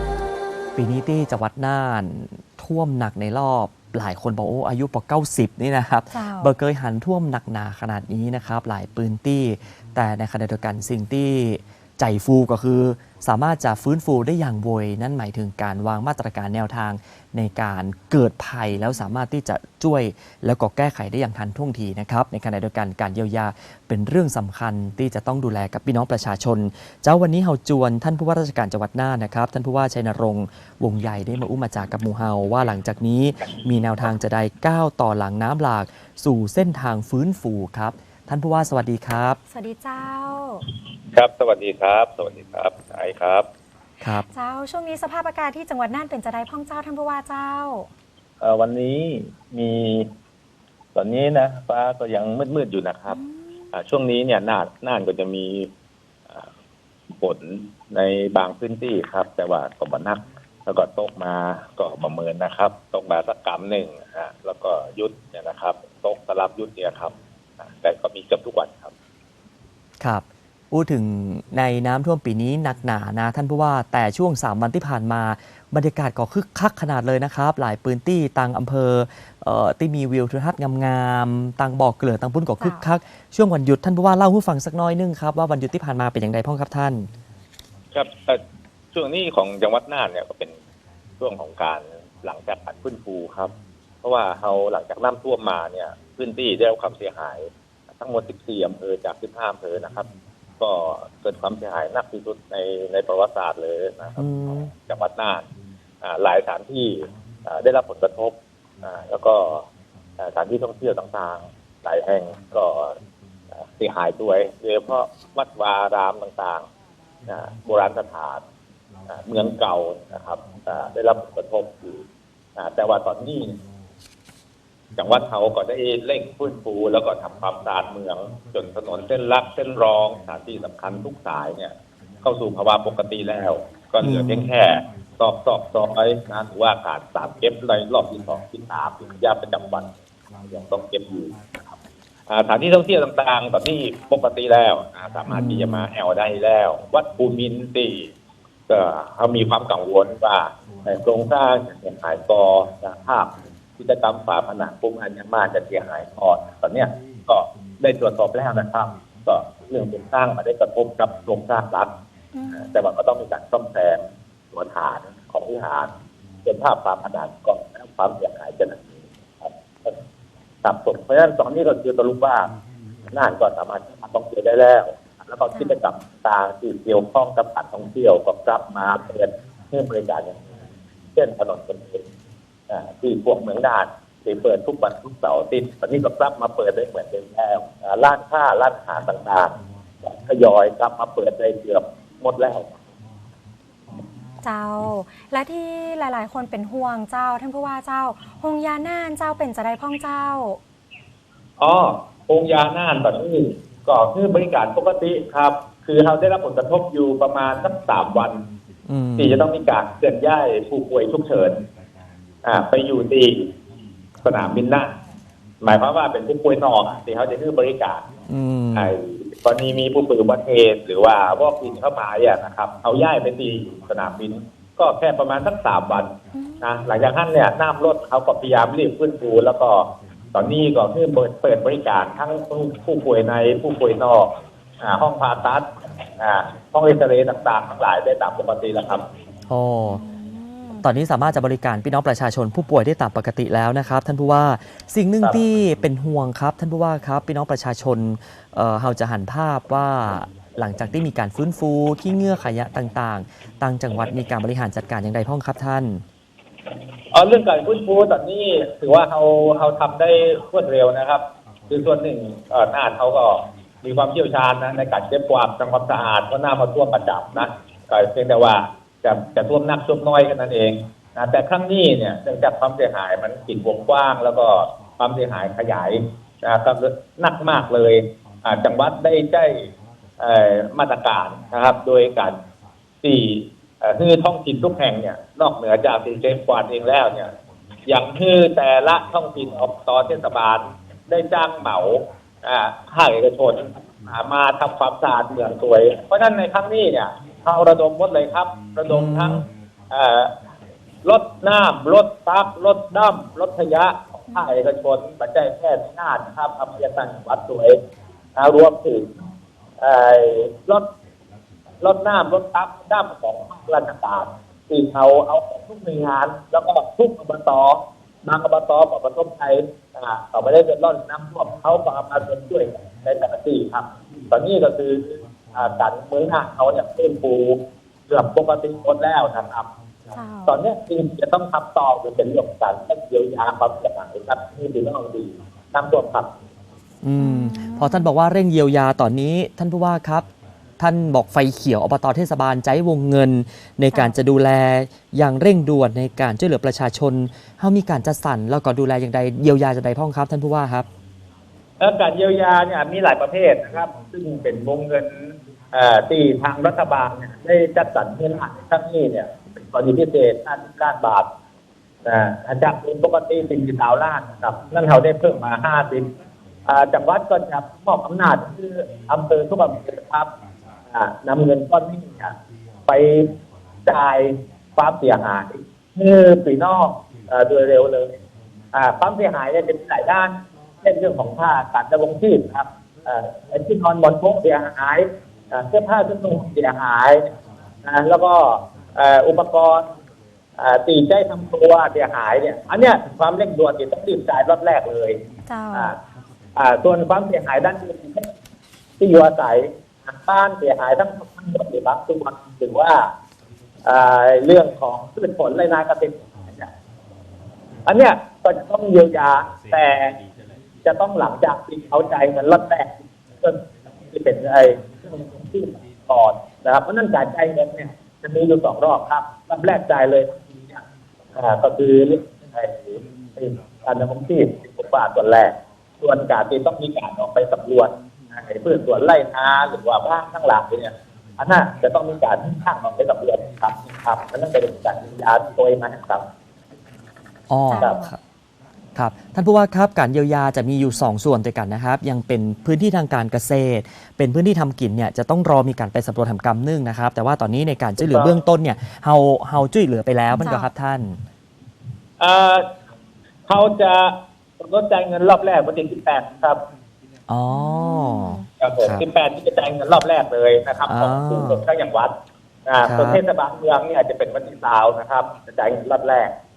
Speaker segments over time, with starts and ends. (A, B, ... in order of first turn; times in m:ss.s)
0:00.8-0:39.4 A
0:06.1-0:06.5 B
0:39.5-0:40.6 B
0:41.1-0:43.5 C
0:44.1-0:47.9 B
0:48.4-0:50.1 C
0:51.0-0:53.2 C
0:53.1-0:53.5 B
0:53.7-0:55.7 C
0:57.1-1:08.9 C
1:10.0-1:27.1 A
1:22.6-1:22.9 B
1:27.9-1:28.4 C
1:28.9-1:30.6 C
1:31.2-1:40.1 C
1:40.6-1:44.3 C
1:44.2-1:44.7 A
1:44.9-1:45.5 C
1:46.0-1:49.6 C
1:50.2-1:53.0 C
1:53.6-1:56.7 C
1:57.3-1:58.4 C
1:59.1-2:02.0 C
2:02.6-2:03.6 C
2:05.0-2:21.4 C
2:14.0-2:14.5 A
2:22.3-2:28.1 C
2:25.3-2:25.9 A
2:28.7-2:41.9 C
2:42.3-2:42.8 B
2:42.5-2:45.9 C
2:46.4-2:50.0 C
2:50.6-2:52.5 C
2:53.1-3:00.4 C
2:55.5-2:55.8 B
3:01.2-3:02.0 C
3:02.7-3:12.7 C
3:14.4-3:20.6 B
3:21.6-3:28.4 C
3:28.9-3:29.4 A
3:29.2-3:31.6 C
3:32.4-3:33.5 C
3:34.2-3:35.0 C
3:35.6-3:38.0 C
3:38.3-3:38.9 A
3:38.8-3:59.0 C
3:46.3-3:46.7 B
3:59.5-4:00.0 A
3:59.8-4:00.9 B
4:00.8-4:16.0 A
4:17.1-4:42.4 C
4:43.0-4:47.3 C
4:47.9-5:00.3 C
4:58.9-4:59.5 A
5:01.0-5:07.8 C
5:08.4-5:09.2 C
5:09.8-5:10.9 C
5:11.8-5:29.7 C
5:30.1-5:30.6 B
5:30.5-5:36.3 C
5:37.0-5:40.3 A
5:37.2-5:38.1 B
5:40.8-5:50.9 A
5:43.9-5:44.2 B
5:51.8-6:01.3 C
6:02.0-6:06.1 C
6:06.7-6:10.3 C
6:10.9-6:12.4 C
6:12.9-6:13.3 C
6:13.9-6:18.2 C
6:18.7-6:29.9 C
6:30.6-6:35.2 C
6:35.5-6:35.9 B
6:36.6-6:38.3 C
6:39.0-6:43.1 C
6:43.8-6:46.7 C
6:47.8-6:50.2 C
6:50.8-6:53.6 C
6:54.1-7:00.8 C
7:01.4-7:16.3 C
7:17.5-7:18.2 A
7:17.7-7:18.1 B
7:19.0-7:31.2 A
7:28.0-7:28.4 C
7:30.4-7:30.7 B
7:32.2-7:32.7 C
7:33.5-7:36.6 C
7:37.3-7:39.0 A
7:37.5-7:38.5 B
7:38.6-7:42.2 C
7:40.9-7:41.6 A
7:42.7-7:46.3 C
7:42.8-7:43.2 A